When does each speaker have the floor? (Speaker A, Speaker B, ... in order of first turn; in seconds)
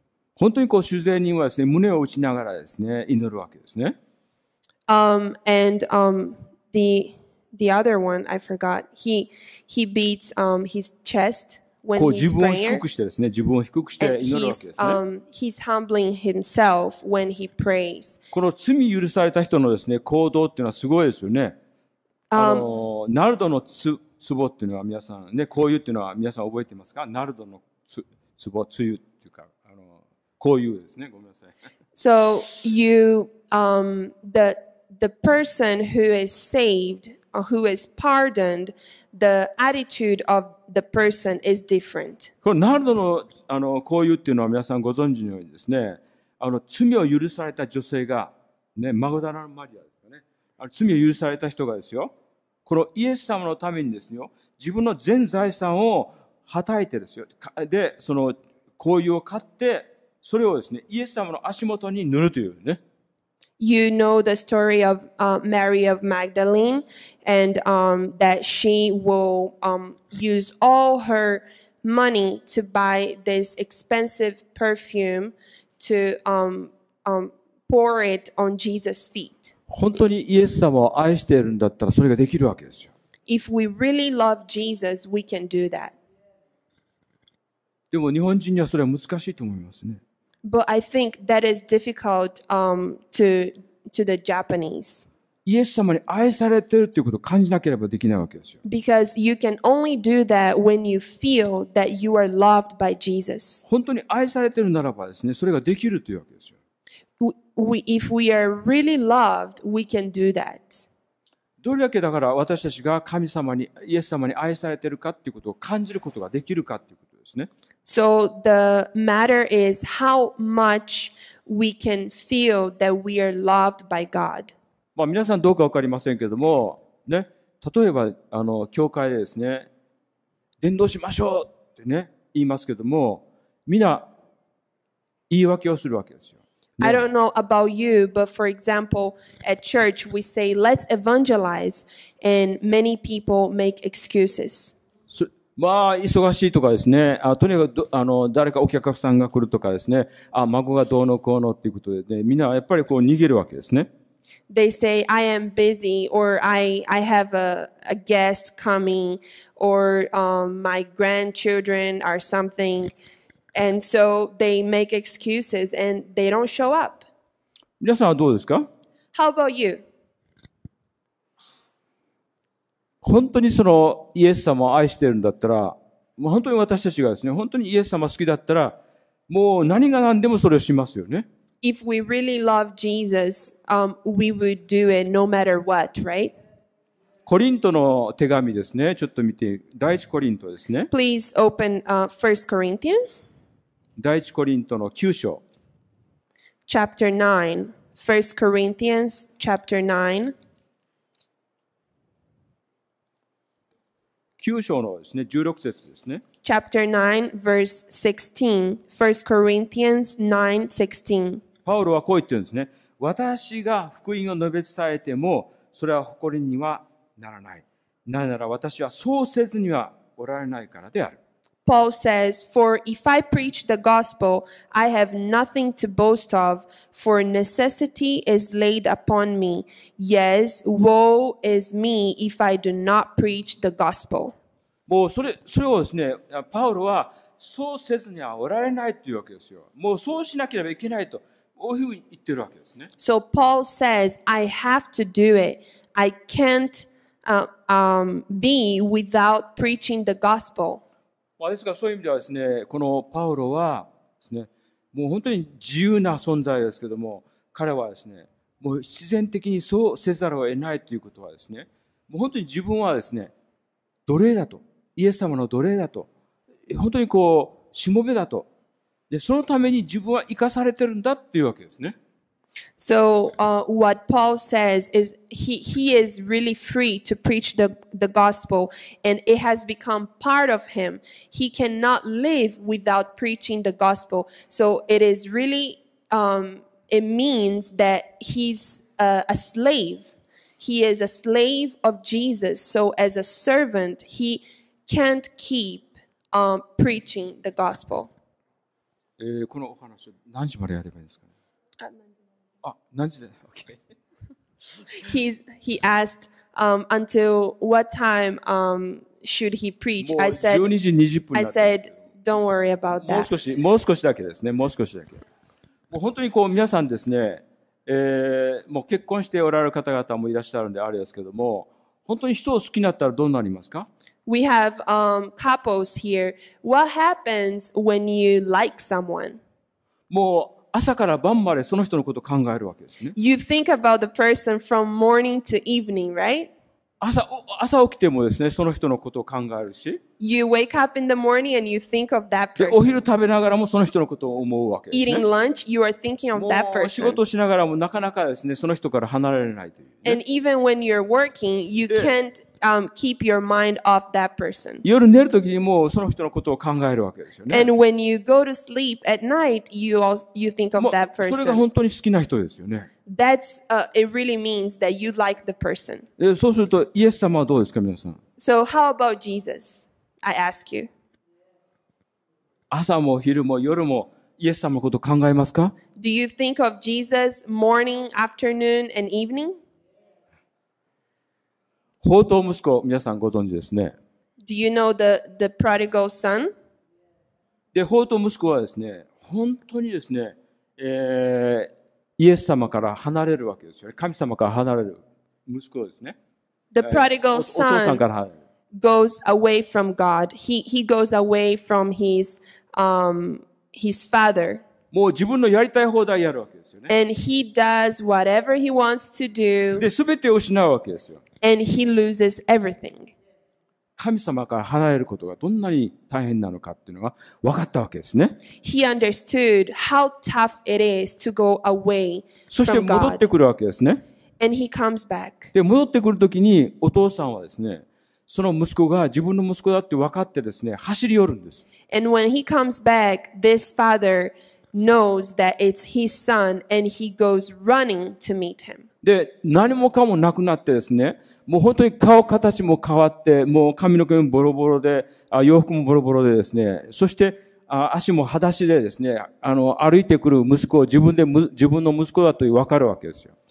Speaker A: 0.4-4.0, 12.0-15.0, 18.3-21.6, 22.4-31.5, 42.4-52.1, 52.7-62.8, 79.7-82.9, 87.9-90.0, 95.5-98.6, 103.7-106.6, 111.6-117.5, 125.0-129.7, 130.6-134.1, 135.3-137.0, 145.1-153.9, 167.8-168.7, 173.0-178.8, 179.3-181.3, 187.3-190.9, 194.0-195.4, 204.4-206.2, 211.7-221.2, 234.9-242.9, 251.4-263.3, 264.1-266.1, 266.7-268.5, 269.1-271.9, 299.2-301.3, 302.6-303.8, 310.0-312.0, 313.0-315.2, 315.9-323.9, 330.1-333.1, 337.0-340.0, 342.6-345.2, 346.4-350.2, 354.8-357.7, 360.8-362.9, 366.2-368.2, 372.7-375.8, 382.0-384.0, 387.7-396.1, 396.8-398.4, 404.9-406.9, 409.8-411.2, 414.0-418.4, 422.5-424.0, 425.5-431.6, 439.0-453.3
Speaker B: 4.9-12.8, 14.0-18.2, 22.3-22.7, 31.9-42.3, 63.6-79.5, 83.3-86.0, 90.5-95.1, 98.6-103.7, 107.2-110.9, 117.8-124.5, 136.8-144.8, 154.5-162.9, 163.6-167.0, 169.1-169.8, 181.6-186.3, 190.9-193.2, 196.7-200.3, 206.4-211.4, 221.7-234.4, 243.0-250.8, 272.8-298.1, 304.9-310.6, 311.3-313.3, 324.3-329.4, 333.2-336.5, 340.2-343.0, 344.9-347.2, 350.0-354.9, 357.5-361.6, 363.1-366.1, 368.4-370.9, 376.0-379.6, 384.5-386.5, 396.7-398.0, 398.8-404.6, 406.9-409.9, 411.4-413.1, 418.6-423.3, 424.4-425.5, 431.9-438.9